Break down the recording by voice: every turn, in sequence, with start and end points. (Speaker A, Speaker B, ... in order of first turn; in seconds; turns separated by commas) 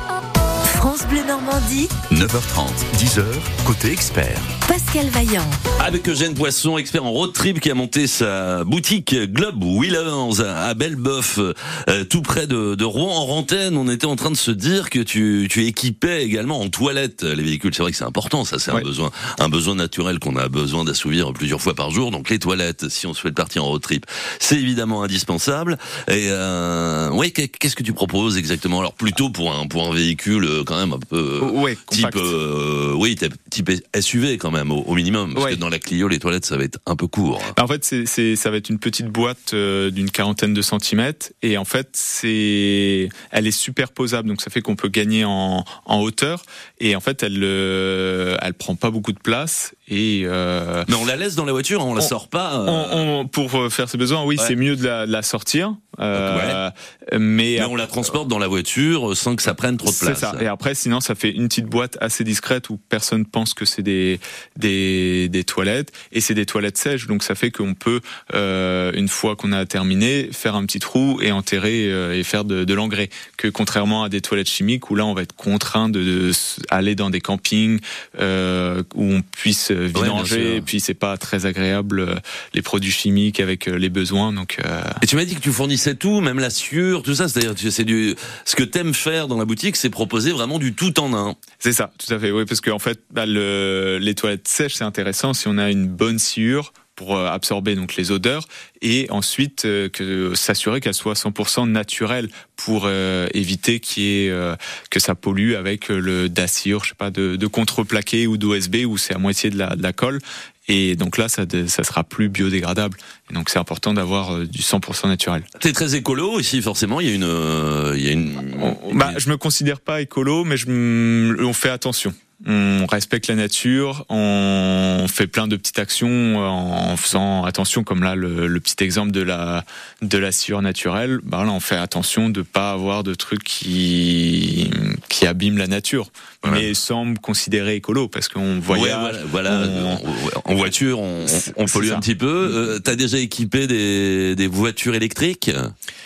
Speaker A: 0.6-1.9, Speaker B: 2.1-4.5, Speaker A: 4.7-5.6, Speaker C: 5.8-37.5, Speaker D: 31.4-32.3, Speaker D: 35.3-35.6, Speaker D: 37.5-50.9, Speaker C: 50.9-53.0, Speaker D: 52.6-57.7, Speaker C: 56.1-56.6, Speaker C: 57.6-60.4, Speaker D: 59.8-85.0, Speaker C: 79.9-80.6, Speaker C: 85.0-91.4, Speaker D: 91.6-115.5, Speaker C: 115.6-119.2, Speaker D: 118.6-140.0, Speaker C: 136.4-136.7, Speaker C: 138.7-145.7, Speaker D: 141.2-142.7